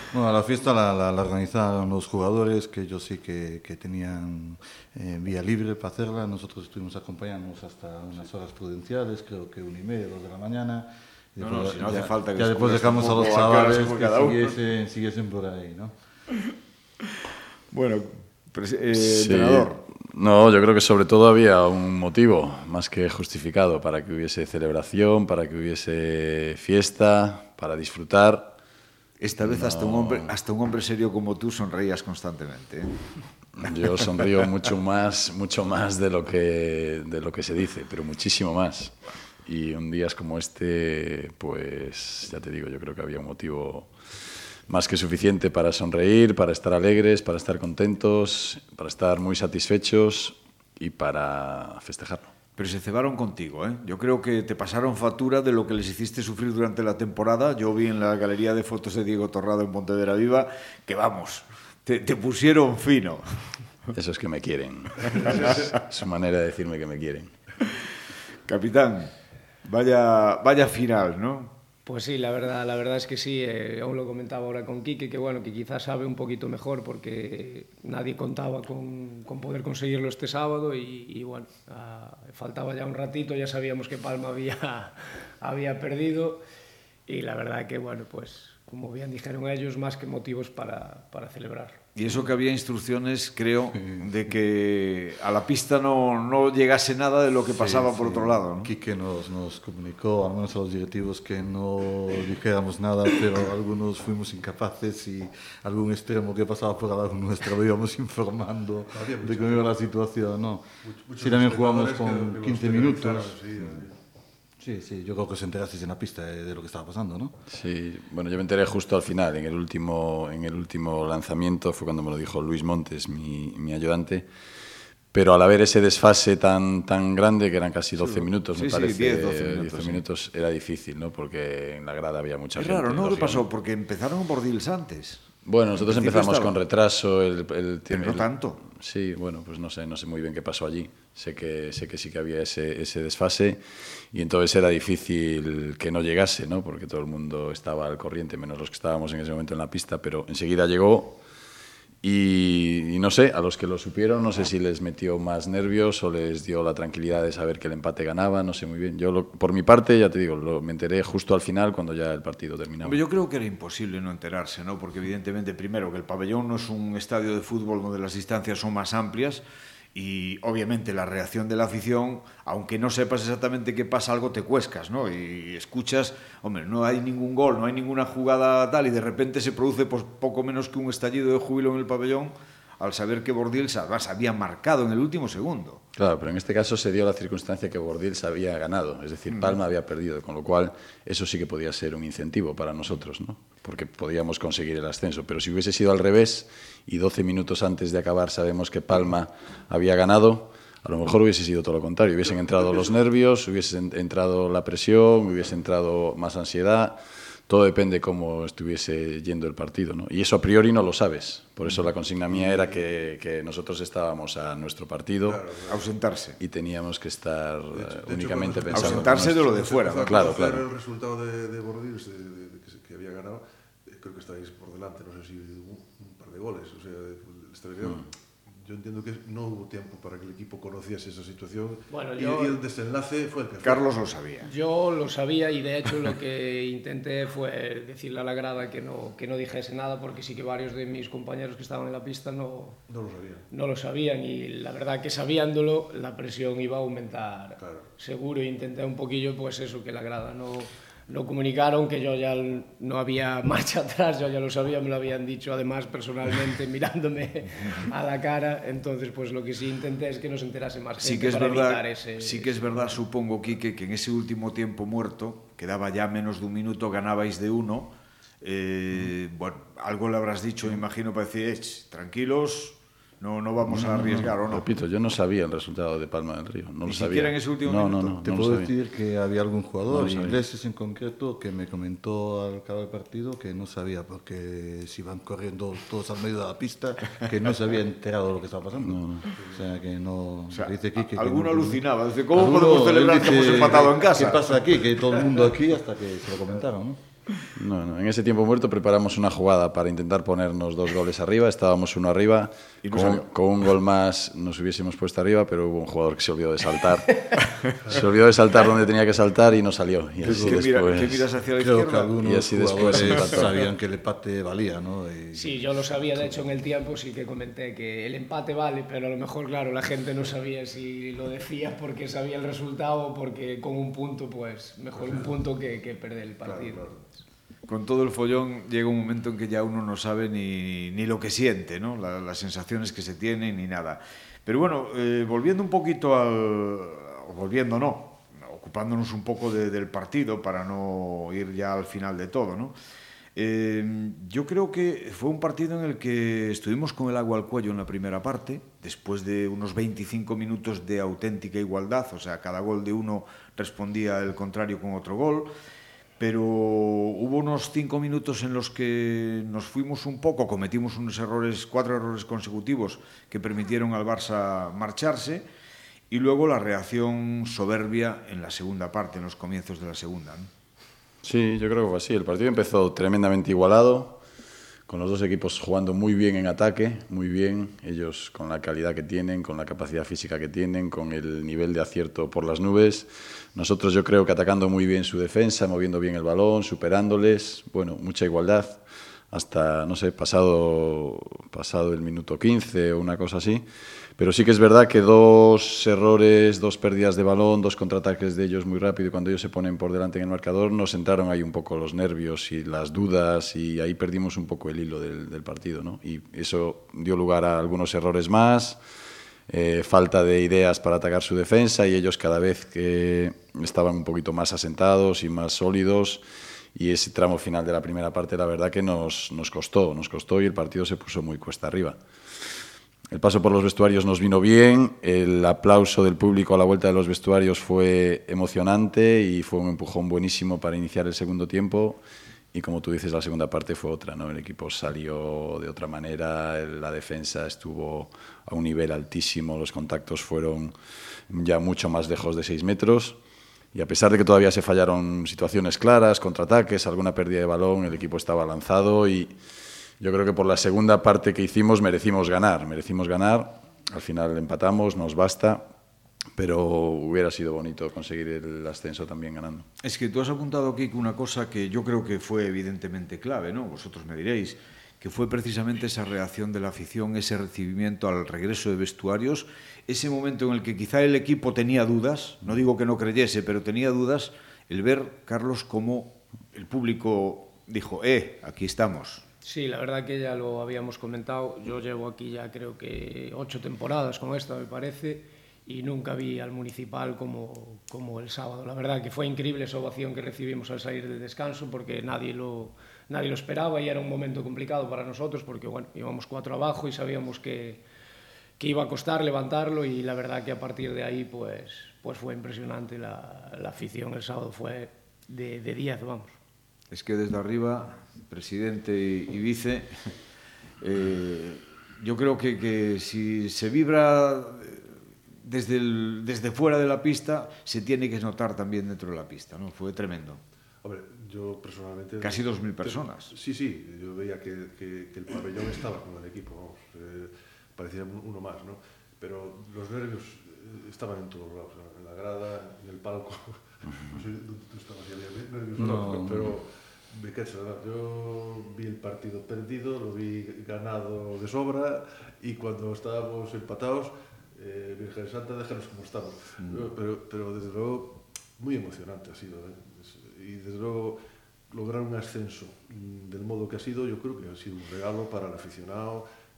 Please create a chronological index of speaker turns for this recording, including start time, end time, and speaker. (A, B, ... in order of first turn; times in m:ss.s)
0:00.1-0:15.9 A
0:11.4-0:14.6 B
0:17.7-0:19.8 B
0:19.0-0:28.6 C
0:29.2-0:33.0 B
0:29.4-0:30.3 C
0:33.6-0:38.9 C
0:39.4-0:43.9 C
0:44.7-0:52.3 C
0:52.6-1:03.5 B
1:03.9-1:07.3 C
1:05.2-1:05.6 D
1:05.3-1:05.7 B
1:08.5-1:09.1 B
1:09.6-1:11.5 B
1:11.9-1:26.4 E
1:27.1-1:31.8 E
1:32.0-1:38.7 B
1:33.8-1:34.1 A
1:37.5-1:50.6 A
1:48.9-1:49.7 D
1:50.8-1:54.0 D
1:51.2-1:53.4 A
1:54.6-1:57.4 A
1:57.5-2:04.3 C
2:05.1-2:13.4 C
2:08.1-2:10.0 B
2:12.6-2:16.5 B
2:15.4-2:23.6 C
2:17.9-2:18.6 B
2:24.1-2:31.2 C
2:32.0-2:43.0 C
2:42.8-2:49.4 B
2:50.0-3:05.8 B
3:06.0-3:35.4 C
3:09.3-3:09.6 B
3:22.3-3:22.9 D
3:32.3-3:32.8 D
3:35.2-3:35.9 D
3:35.7-3:36.4 B
3:36.4-3:39.4 C
3:37.7-3:54.0 D
3:38.7-3:40.3 B
3:40.0-3:40.7 C
3:51.9-3:52.6 E
3:53.6-3:54.5 B
3:54.4-4:02.8 E
4:02.9-4:03.5 D
4:03.5-4:23.0 E
4:07.6-4:07.9 D
4:21.0-4:34.7 B
4:33.7-4:38.7 C
4:36.8-4:38.3 B
4:38.2-4:57.0 A
4:39.9-4:40.4 C
4:48.8-4:49.3 C
4:49.4-4:49.6 D
4:50.5-4:54.6 B
4:57.6-5:11.2 C
5:02.8-5:03.3 B
5:10.2-5:12.2 B
5:10.2-5:10.7 A
5:11.6-5:16.4 A
5:12.2-5:13.5 C
5:12.7-5:13.4 B
5:15.3-5:26.9 E
5:24.9-5:25.3 D
5:26.4-5:27.0 D
5:27.7-5:42.8 B
5:43.4-5:55.5 B
5:56.2-6:05.4 B
6:06.1-6:10.5 B
6:11.2-6:14.2 C
6:14.9-6:33.6 C
6:34.2-6:48.8 C
6:49.5-6:56.2 C
6:56.7-7:02.0 C
7:03.1-7:12.0 C
7:12.5-7:20.7 C
7:21.3-7:23.2 C
7:23.7-7:29.4 C
7:30.0-7:35.6 C
7:36.4-7:39.7 C
7:39.8-7:59.2 B
7:59.4-8:17.8 E
8:18.6-8:26.4 E
8:26.9-8:30.2 B
8:30.8-8:40.4 B
8:40.8-9:16.3 D
8:42.2-8:43.4 B
8:55.8-8:56.6 A
9:06.6-9:06.9 B